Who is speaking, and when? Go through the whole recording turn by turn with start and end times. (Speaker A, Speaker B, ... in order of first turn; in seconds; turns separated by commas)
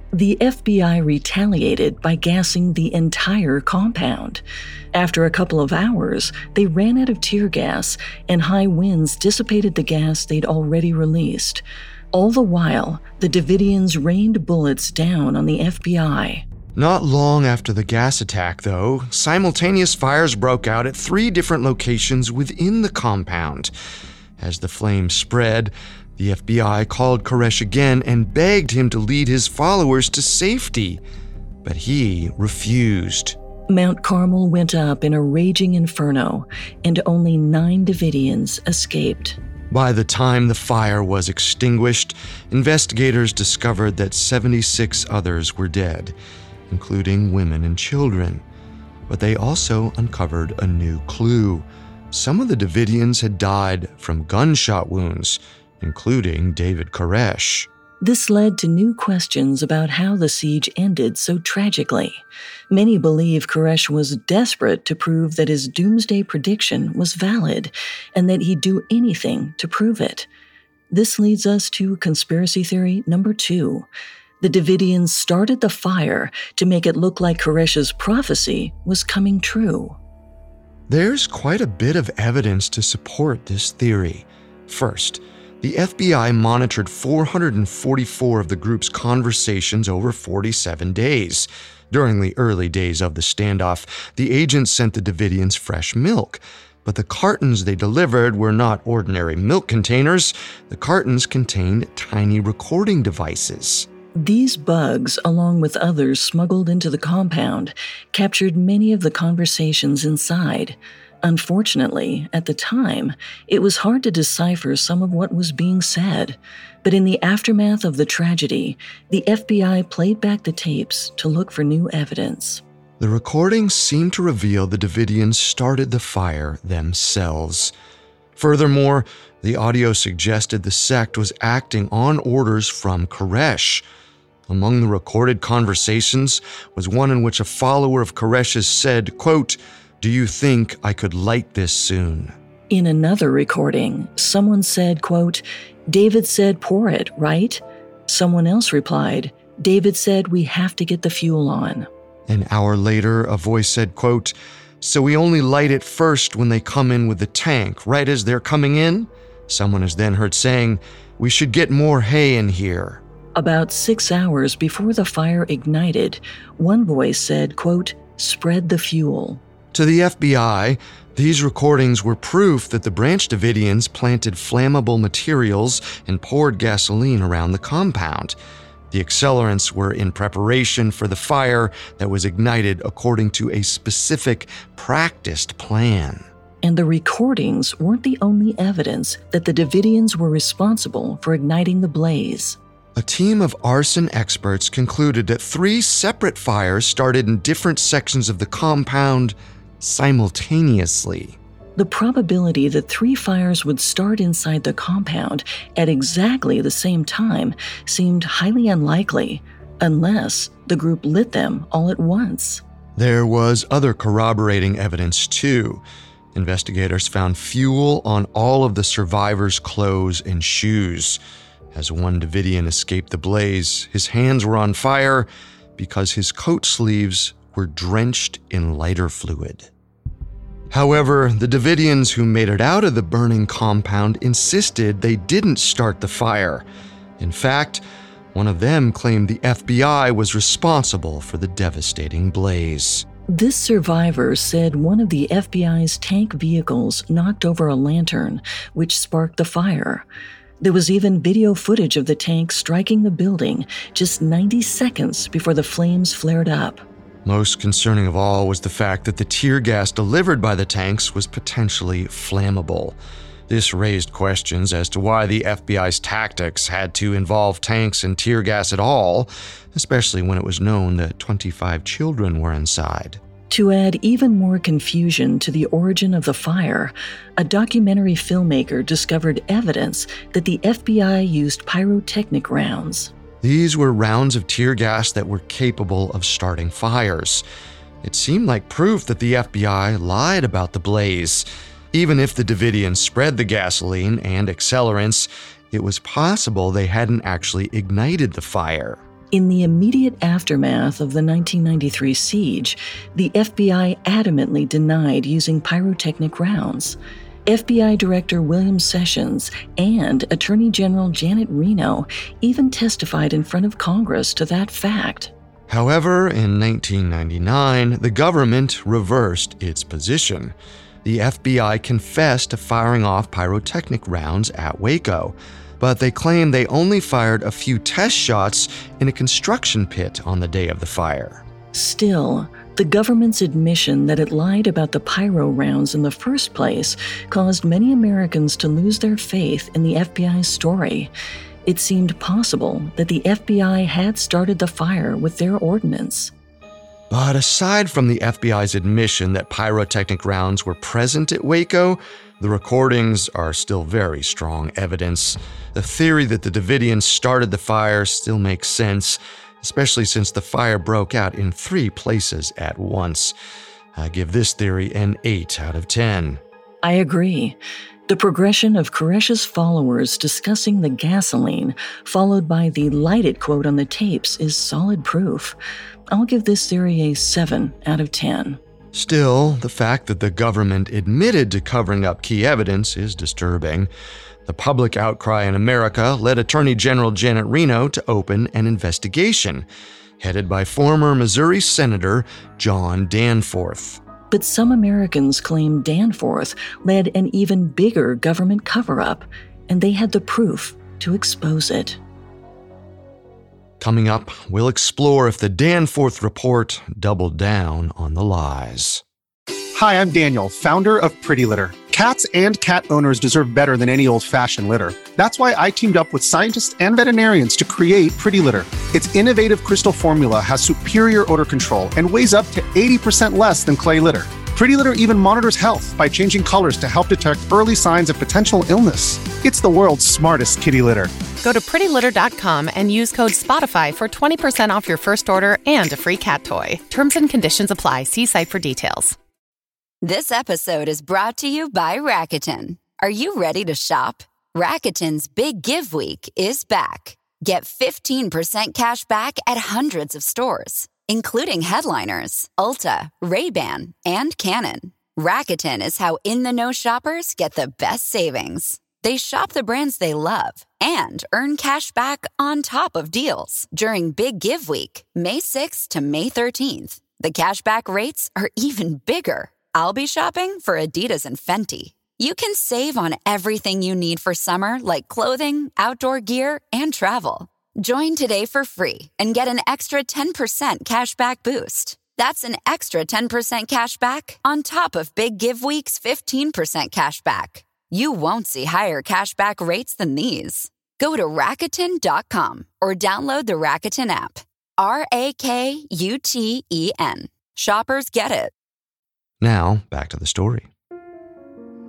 Speaker A: 0.1-16.4, Speaker B: 16.8-23.7, Speaker B: 24.4-31.0, Speaker B: 31.6-33.4, Speaker A: 33.7-39.4, Speaker B: 39.7-46.2, Speaker B: 46.7-48.4, Speaker B: 49.1-57.7, Speaker A: 58.0-70.3, Speaker A: 70.9-73.9, Speaker A: 74.4-80.0, Speaker B: 80.9-103.9, Speaker A: 104.2-122.6, Speaker B: 123.0-127.7, Speaker B: 128.4-133.8, Speaker B: 134.5-142.3, Speaker A: 142.7-151.9, Speaker B: 152.3-163.0, Speaker A: 163.4-169.4, Speaker B: 169.7-178.4, Speaker B: 178.9-186.3, Speaker A: 186.6-192.6, Speaker B: 193.0-201.4, Speaker A: 201.8-212.6, Speaker B: 213.0-215.8, Speaker B: 216.3-221.2, Speaker B: 221.7-229.7, Speaker B: 230.7-236.7, Speaker B: 237.2-243.1, Speaker A: 243.3-250.1, Speaker A: 250.6-256.8, Speaker B: 257.2-263.0, Speaker B: 263.5-273.2, Speaker A: 273.5-283.1, Speaker B: 283.4-287.4, Speaker B: 288.0-299.0, Speaker A: 299.3-315.3, Speaker B: 315.7-331.4, Speaker A: 331.7-341.1, Speaker A: 341.7-346.3, Speaker B: 347.1-363.4, Speaker B: 364.0-366.4, Speaker A: 366.8-367.6, Speaker A: 368.1-375.6, Speaker A: 376.1-378.6, Speaker B: 378.9-383.9, Speaker B: 384.5-389.7, Speaker B: 390.2-394.0, Speaker A: 394.3-402.0, Speaker B: 403.8-409.0, Speaker C: 409.8-431.1, Speaker D: 431.4-439.2, Speaker E: 440.0-498.5, Speaker B: 499.4-500.7